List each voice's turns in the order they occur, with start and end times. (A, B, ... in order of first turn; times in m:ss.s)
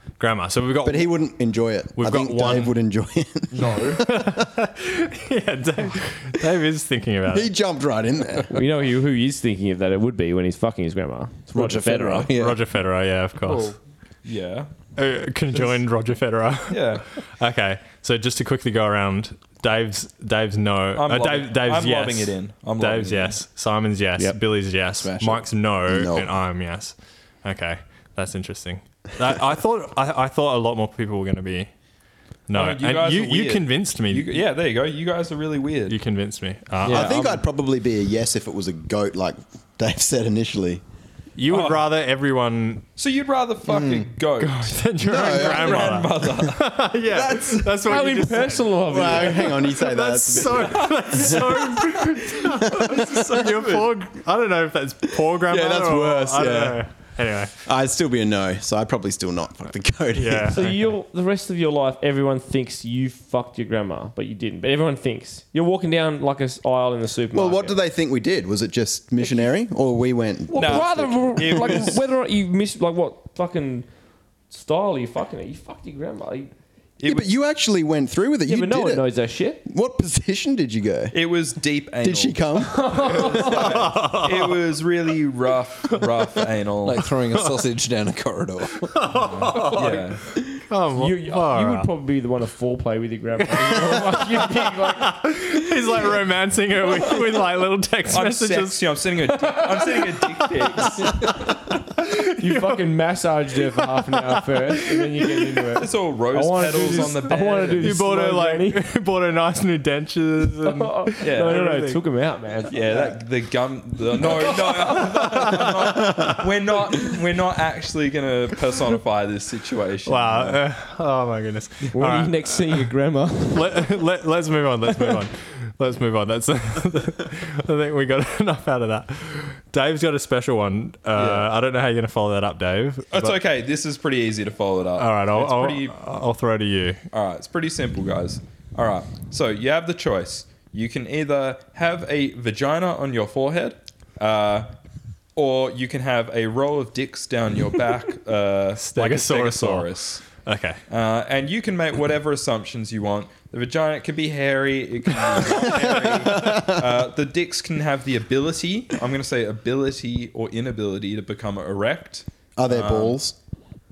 0:00.2-0:01.4 A
0:00.8-0:04.3 B
0:02.0-0:02.8 A
0:03.5-0:04.0 C
0:03.9-0:07.5 A
0:07.3-0:08.6 B
0:08.5-0:12.3 D
0:11.5-0:12.6 E
0:12.3-0:13.8 A
0:13.4-0:14.8 C
0:15.0-0:31.7 A
0:15.5-0:15.8 C
0:16.7-0:17.0 C
0:21.0-0:23.4 C
0:24.9-0:25.5 E
0:25.9-0:26.3 B
0:32.5-0:34.4 A
0:32.5-0:36.0 C
0:35.9-0:37.3 A
0:36.8-0:40.8 B
0:36.9-0:37.1 C
0:41.4-0:42.9 A
0:41.5-0:41.9 C
0:43.0-0:46.7 C
0:43.6-0:44.1 E
0:44.4-0:57.5 A
0:45.0-0:46.1 B
0:47.1-0:47.5 B
0:47.8-0:49.7 D
0:48.9-0:53.9 B
0:55.2-1:00.7 B
1:00.2-1:00.9 A
1:00.5-1:07.8 D
1:07.3-1:11.8 B
1:10.5-1:13.9 D
1:10.5-1:12.0 C
1:14.5-1:16.5 D
1:17.0-1:17.3 C
1:17.0-1:21.2 B
1:18.5-1:19.6 D
1:21.1-1:22.5 C
1:22.0-1:24.0 B
1:22.7-1:23.8 D
1:23.3-1:27.1 C
1:23.6-1:24.6 A
1:26.8-1:29.1 E
1:28.8-1:31.9 A
1:29.2-1:30.2 C
1:30.9-1:35.1 D
1:33.8-1:42.9 A
1:38.1-1:41.2 C
1:42.4-1:48.8 D
1:43.7-1:45.7 A
1:45.8-1:48.0 C
1:46.9-1:47.2 A
1:47.8-1:52.0 A
1:50.6-1:53.2 D
1:51.2-1:51.7 C
1:52.7-2:00.6 C
1:54.2-1:56.3 A
2:00.0-2:02.9 A
2:01.9-2:03.8 D
2:03.5-2:13.4 A
2:11.2-2:11.5 C
2:13.1-2:16.0 C
2:15.0-2:17.0 A
2:17.1-2:24.7 C
2:25.4-2:30.3 C
2:28.8-2:30.8 A
2:30.9-2:43.2 C
2:35.7-2:37.0 B
2:42.6-2:43.4 B